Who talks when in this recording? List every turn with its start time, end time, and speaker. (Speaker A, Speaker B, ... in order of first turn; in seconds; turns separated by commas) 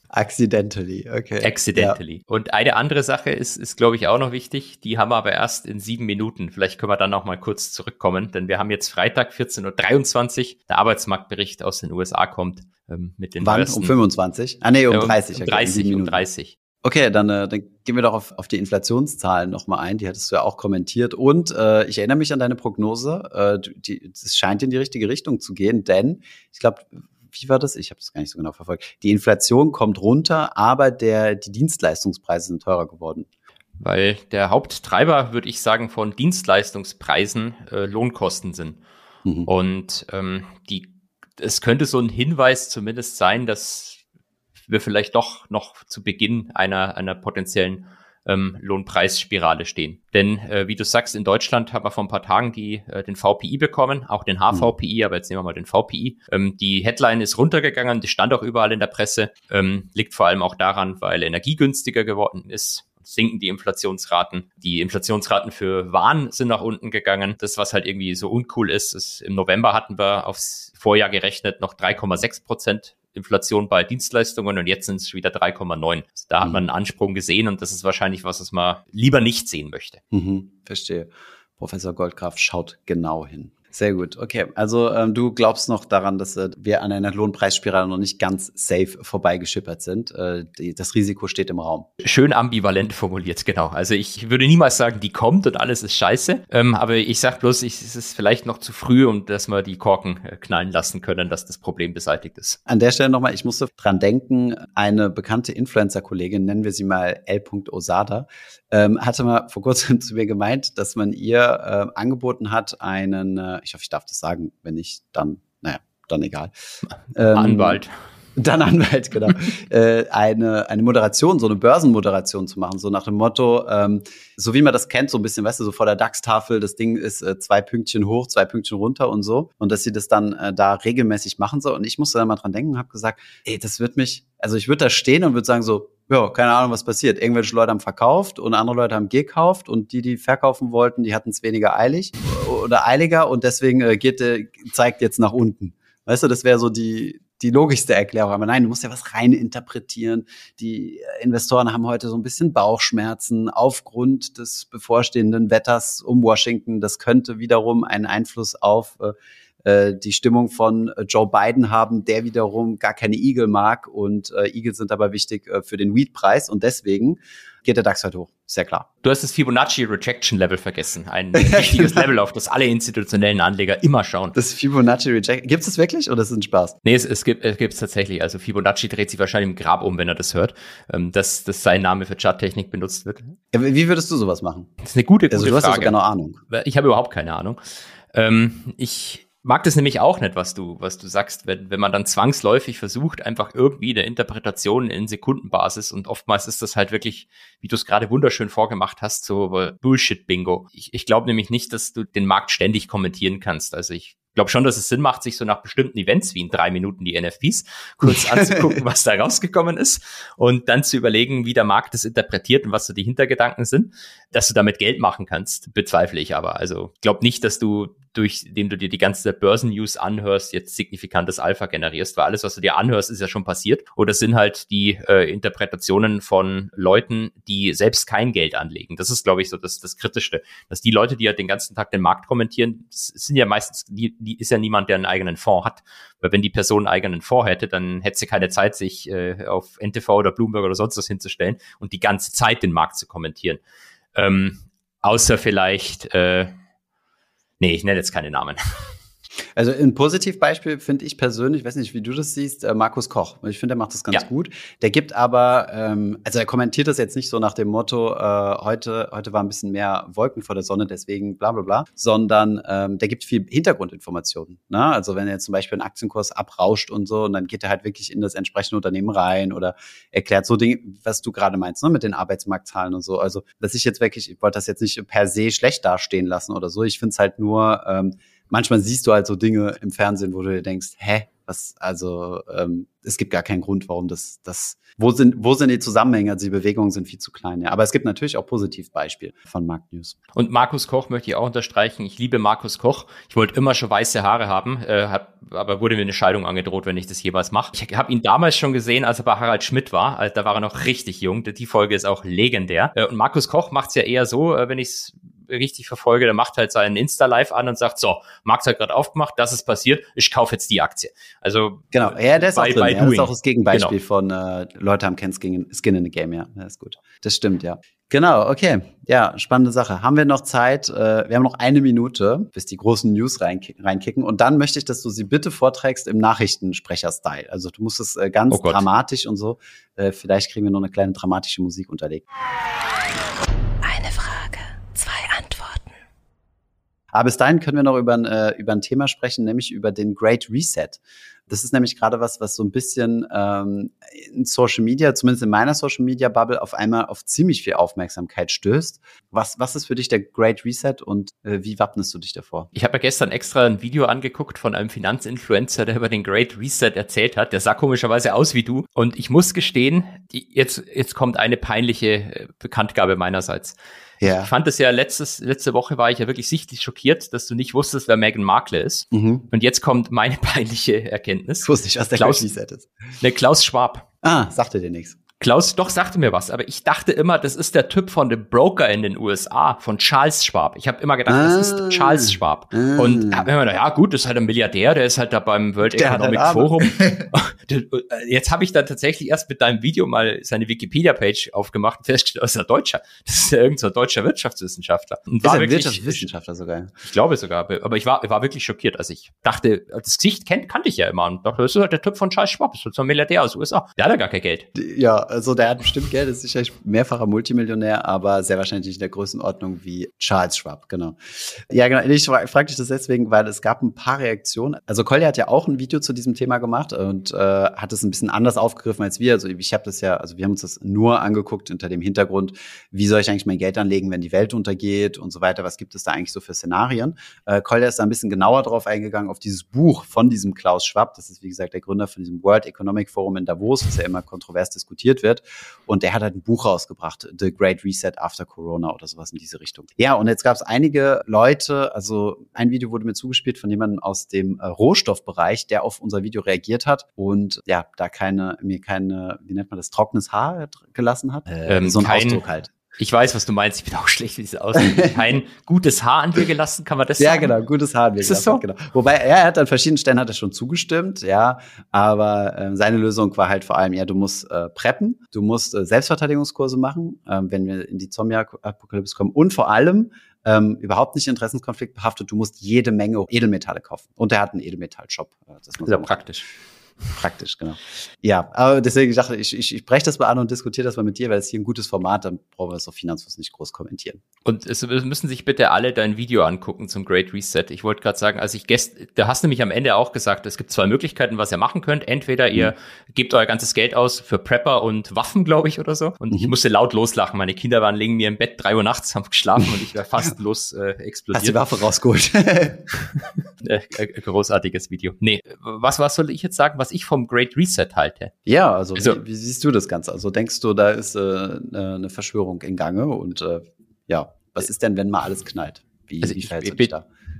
Speaker A: 0.1-2.0, Speaker B: 1.4-13.9, Speaker A: 13.4-16.2, Speaker B: 14.9-16.6, Speaker A: 16.8-33.3, Speaker B: 33.8-38.8, Speaker B: 39.5-44.0, Speaker B: 44.7-80.0, Speaker A: 80.1-91.9, Speaker B: 92.0-102.6, Speaker A: 102.7-116.5, Speaker B: 117.1-117.9, Speaker A: 117.1-117.8, Speaker A: 118.4-168.9, Speaker B: 169.0-174.3, Speaker A: 171.4-172.0, Speaker A: 174.3-176.8, Speaker B: 176.8-183.3, Speaker A: 183.5-184.7, Speaker B: 184.8-185.9, Speaker A: 185.3-186.4, Speaker B: 186.5-187.6, Speaker B: 188.1-243.6, Speaker A: 208.0-208.8, Speaker B: 244.2-246.5, Speaker B: 247.6-248.6, Speaker A: 249.6-290.2, Speaker B: 290.4-313.9, Speaker A: 311.9-332.2, Speaker B: 328.5-328.9, Speaker C: 333.8-335.9, Speaker A: 337.1-352.7, Speaker B: 352.7-372.5, Speaker A: 364.2-364.5, Speaker A: 369.1-369.5, Speaker A: 371.6-372.9, Speaker B: 373.2-374.1, Speaker A: 374.2-375.2, Speaker B: 375.4-396.3, Speaker A: 381.3-383.5, Speaker A: 385.8-387.3, Speaker A: 395.4-396.9, Speaker B: 397.0-404.7, Speaker A: 404.8-452.7, Speaker B: 451.6-452.4, Speaker B: 453.0-457.6, Speaker A: 454.8-455.4, Speaker A: 457.2-476.2, Speaker B: 458.2-458.6, Speaker B: 475.8-476.5, Speaker A: 477.2-484.2, Speaker B: 484.4-501.6, Speaker A: 501.3-502.9, Speaker B: 503.6-508.3, Speaker A: 508.5-517.1, Speaker B: 516.2-516.9